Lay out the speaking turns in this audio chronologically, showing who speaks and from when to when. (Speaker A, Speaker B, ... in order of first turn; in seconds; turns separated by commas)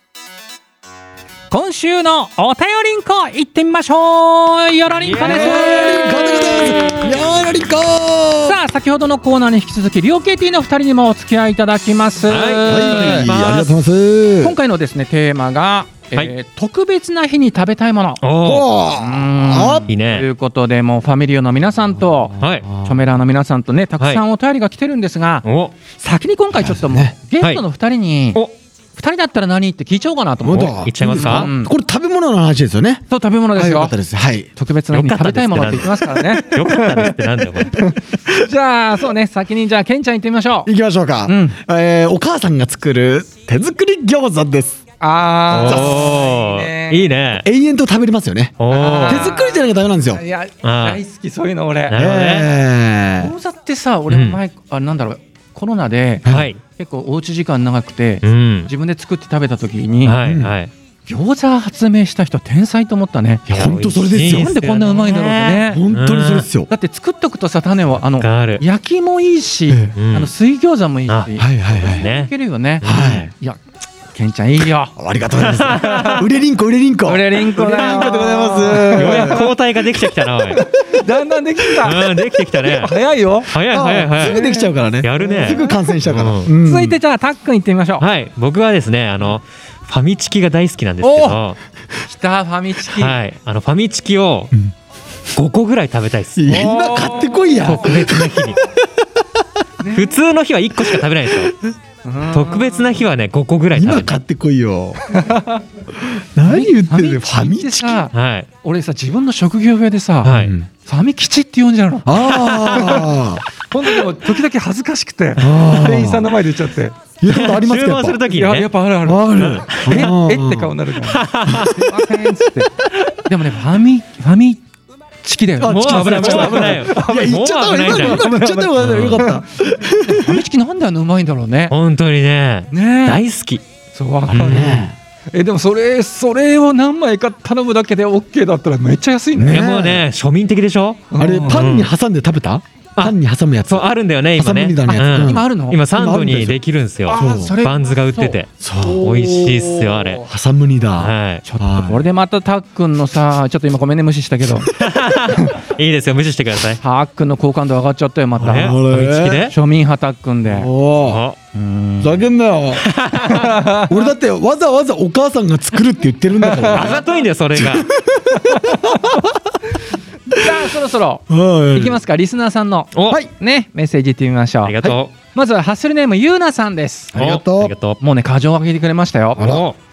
Speaker A: 1.5-7.0, Speaker B: 5.0-6.2, Speaker C: 5.2-8.6, Speaker A: 8.4-13.3, Speaker B: 12.3-13.7, Speaker C: 12.7-14.6, Speaker A: 14.4-18.2, Speaker B: 18.2-18.7, Speaker C: 18.4-19.9, Speaker A: 18.9-28.4, Speaker B: 19.9-20.3, Speaker C: 22.2-23.0, Speaker B: 22.4-22.7, Speaker B: 25.4-25.8, Speaker C: 26.5-27.1, Speaker A: 29.0-31.7, Speaker C: 30.4-33.0, Speaker B: 30.5-31.5, Speaker A: 33.1-34.0, Speaker C: 33.5-34.5, Speaker A: 34.6-40.7, Speaker B: 34.9-37.8, Speaker C: 40.7-44.8, Speaker A: 41.3-41.6, Speaker A: 45.0-47.1, Speaker B: 45.5-47.5, Speaker C: 45.6-46.1, Speaker C: 47.4-50.2, Speaker B: 48.6-49.3, Speaker A: 48.7-52.0, Speaker B: 50.6-51.0, Speaker B: 51.9-52.5, Speaker C: 52.0-53.3, Speaker A: 53.2-60.1, Speaker B: 54.1-54.4, Speaker B: 56.3-56.6, Speaker B: 58.2-58.7, Speaker B: 60.0-60.7, Speaker C: 60.2-60.5, Speaker A: 61.1-63.5, Speaker C: 63.5-64.5, Speaker B: 63.5-66.5, Speaker A: 64.2-65.8, Speaker C: 65.7-66.7, Speaker A: 66.7-73.6, Speaker B: 68.2-68.6, Speaker B: 70.0-70.3, Speaker C: 71.4-72.0, Speaker B: 71.8-73.3, Speaker C: 72.8-73.3, Speaker A: 74.1-75.0, Speaker C: 75.0-79.5, Speaker B: 75.4-76.2, Speaker A: 75.8-76.2, Speaker A: 77.0-79.5, Speaker B: 77.8-80.7, Speaker A: 80.5-83.5, Speaker B: 81.8-82.9, Speaker B: 83.5-84.4, Speaker C: 83.7-87.0, Speaker A: 84.2-85.8, Speaker B: 85.0-86.5, Speaker A: 86.6-88.0, Speaker B: 88.0-91.6, Speaker A: 91.0-91.4, Speaker A: 92.0-93.2, Speaker B: 93.0-94.5, Speaker B: 95.3-96.7, Speaker C: 96.4-99.3, Speaker A: 96.5-97.8, Speaker B: 97.6-98.6, Speaker A: 99.8-100.2, Speaker B: 99.9-101.5, Speaker A: 102.0-103.0, Speaker B: 102.3-104.2, Speaker C: 103.7-105.1, Speaker A: 105.1-105.6, Speaker C: 106.0-108.1, Speaker A: 106.5-112.1, Speaker B: 108.1-108.5, Speaker B: 110.2-110.5, Speaker C: 110.3-110.7, Speaker C: 112.1-113.4, Speaker B: 112.2-113.1, Speaker A: 112.7-113.0, Speaker A: 113.7-117.0, Speaker C: 115.4-116.4, Speaker C: 117.2-118.2, Speaker B: 117.3-118.7, Speaker A: 118.2-124.6, Speaker C: 119.0-120.8, Speaker B: 119.4-120.1, Speaker B: 121.0-121.8, Speaker C: 121.5-121.8, Speaker A: 125.2-128.8, Speaker C: 125.6-130.4, Speaker B: 125.6-129.3, Speaker A: 129.9-131.7, Speaker B: 131.7-133.6, Speaker A: 132.7-133.2, Speaker A: 133.9-139.7, Speaker C: 134.3-134.9, Speaker B: 134.3-134.8, Speaker C: 139.4-140.1, Speaker B: 139.5-141.9, Speaker A: 141.1-141.7, Speaker C: 141.2-146.6, Speaker B: 143.0-150.2, Speaker A: 144.9-145.8, Speaker A: 147.1-150.1, Speaker C: 147.1-147.6, Speaker C: 148.6-152.0, Speaker B: 151.0-151.4, Speaker A: 151.4-154.7, Speaker B: 154.8-156.8, Speaker A: 156.8-158.8, Speaker C: 158.4-159.5, Speaker B: 158.4-159.6, Speaker A: 159.4-160.7, Speaker C: 160.5-161.2, Speaker B: 161.0-161.4, Speaker A: 161.5-162.2, Speaker C: 162.0-162.9, Speaker B: 162.8-163.6, Speaker A: 163.3-164.1, Speaker C: 163.8-167.0, Speaker A: 166.4-167.1, Speaker B: 166.7-167.9, Speaker C: 167.6-169.4, Speaker A: 168.4-169.2, Speaker A: 170.3-177.2, Speaker C: 171.3-172.0, Speaker B: 172.9-173.2, Speaker B: 174.7-175.1, Speaker C: 177.1-177.7, Speaker B: 177.2-178.0, Speaker A: 178.0-179.6, Speaker C: 179.4-179.6, Speaker B: 179.4-179.8